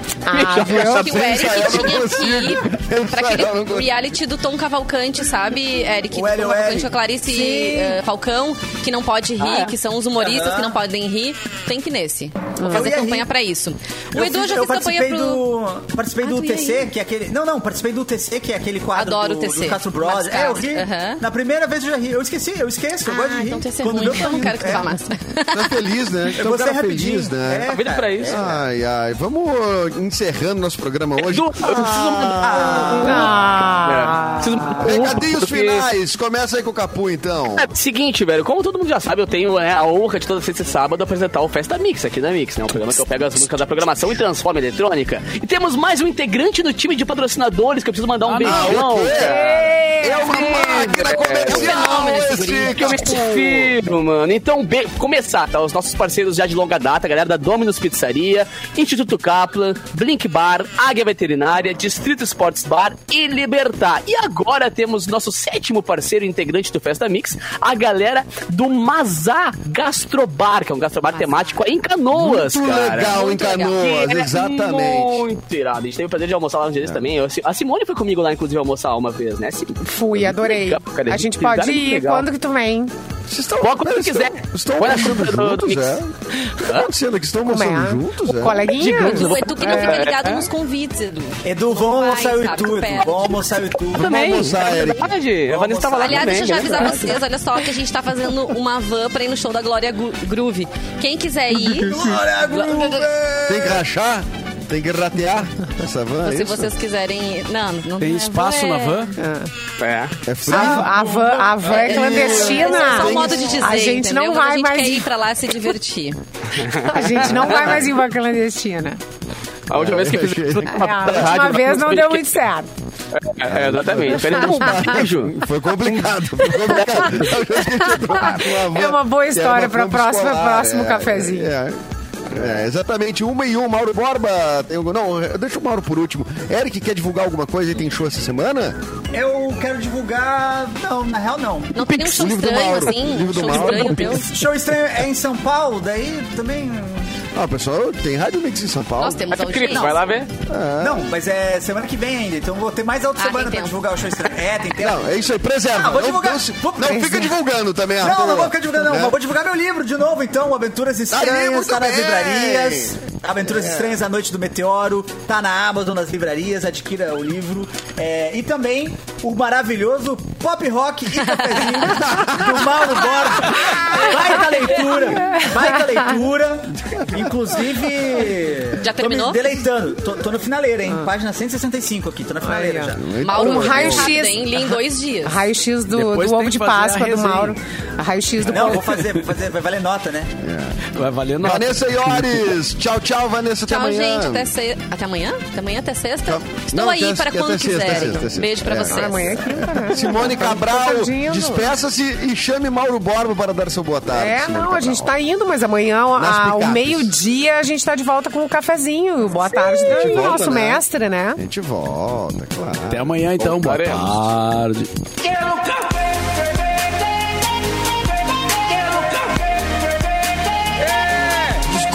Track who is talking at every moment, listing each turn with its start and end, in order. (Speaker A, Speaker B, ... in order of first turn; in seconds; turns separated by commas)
Speaker A: 0.3-1.1, Speaker B: 0.3-1.6, Speaker C: 0.7-15.5, Speaker D: 0.7-4.1, Speaker E: 6.1-7.0, Speaker A: 7.2-8.0, Speaker B: 9.4-9.7, Speaker E: 10.2-10.8, Speaker A: 12.6-12.9, Speaker E: 12.7-13.3, Speaker E: 14.1-25.0, Speaker C: 16.2-16.9, Speaker C: 18.9-21.2, Speaker C: 23.3-25.8, Speaker D: 25.5-27.7, Speaker E: 26.4-28.6, Speaker B: 27.7-28.4, Speaker D: 28.3-33.3, Speaker B: 31.2-35.9, Speaker E: 32.4-33.3, Speaker A: 33.0-35.1, Speaker D: 34.8-37.7, Speaker B: 37.6-49.5, Speaker F: 48.3-48.6, Speaker D: 48.4-53.7, Speaker A: 48.5-51.2, Speaker B: 50.9-51.8, Speaker C: 51.5-53.0, Speaker B: 52.7-73.2, Speaker D: 72.1-75.2, Speaker C: 73.0-73.8, Speaker B: 73.7-82.3, Speaker A: 79.8-82.9, Speaker D: 83.3-88.6, Speaker B: 83.6-86.0, Speaker A: 87.5-90.1, Speaker B: 88.5-90.5, Speaker C: 88.7-93.4, Speaker E: 91.4-94.1, Speaker D: 94.0-95.1, Speaker B: 94.0-97.2, Speaker E: 95.5-96.9, Speaker C: 96.0-103.1, Speaker E: 101.7-103.8, Speaker D: 103.5-106.7, Speaker C: 106.2-109.2, Speaker F: 108.0-109.2, Speaker A: 109.2-109.5, Speaker B: 109.8-110.2, Speaker D: 110.2-113.7, Speaker A: 110.5-115.1, Speaker E: 110.5-111.3, Speaker C: 111.7-116.2, Speaker B: 116.5-117.8, Speaker A: 116.8-119.0, Speaker D: 117.2-117.8, Speaker B: 119.7-122.3, Speaker D: 119.7-121.4, Speaker A: 120.7-122.7, Speaker B: 123.1-127.2, Speaker D: 123.5-138.8, Speaker A: 124.3-124.8, Speaker A: 127.6-131.5, Speaker E: 139.1-141.7, Speaker C: 141.7-144.3, Speaker D: 141.8-144.2, Speaker B: 143.2-144.3, Speaker E: 144.2-147.1, Speaker D: 147.3-149.3, Speaker C: 149.0-150.0, Speaker B: 149.3-150.3, Speaker E: 149.7-150.2, Speaker D: 150.5-151.1, Speaker E: 150.8-155.0, Speaker C: 153.2-153.8, Speaker D: 154.8-159.2, Speaker E: 155.7-157.3, Speaker E: 158.0-183.2, Speaker D: 161.1-163.0, Speaker D: 163.6-163.9, Speaker A: 175.2-175.6, Speaker C: 178.8-179.5, Speaker A: 182.4-189.0, Speaker D: 183.0-184.3, Speaker C: 183.2-185.4, Speaker F: 185.9-187.6, Speaker E: 188.4-190.3, Speaker D: 190.4-190.8, Speaker F: 190.9-192.6, Speaker D: 191.4-194.5, Speaker C: 193.7-199.5, Speaker D: 196.3-205.1, Speaker A: 197.9-198.2, Speaker A: 198.8-201.7, Speaker A: 204.1-211.4, Speaker D: 206.2-207.1, Speaker D: 209.8-210.8, Speaker D: 211.4-214.3, Speaker F: 212.9-214.9, Speaker B: 213.6-214.0, Speaker B: 215.2-215.8, Speaker B: 218.7-219.3, Speaker B: 221.0-221.8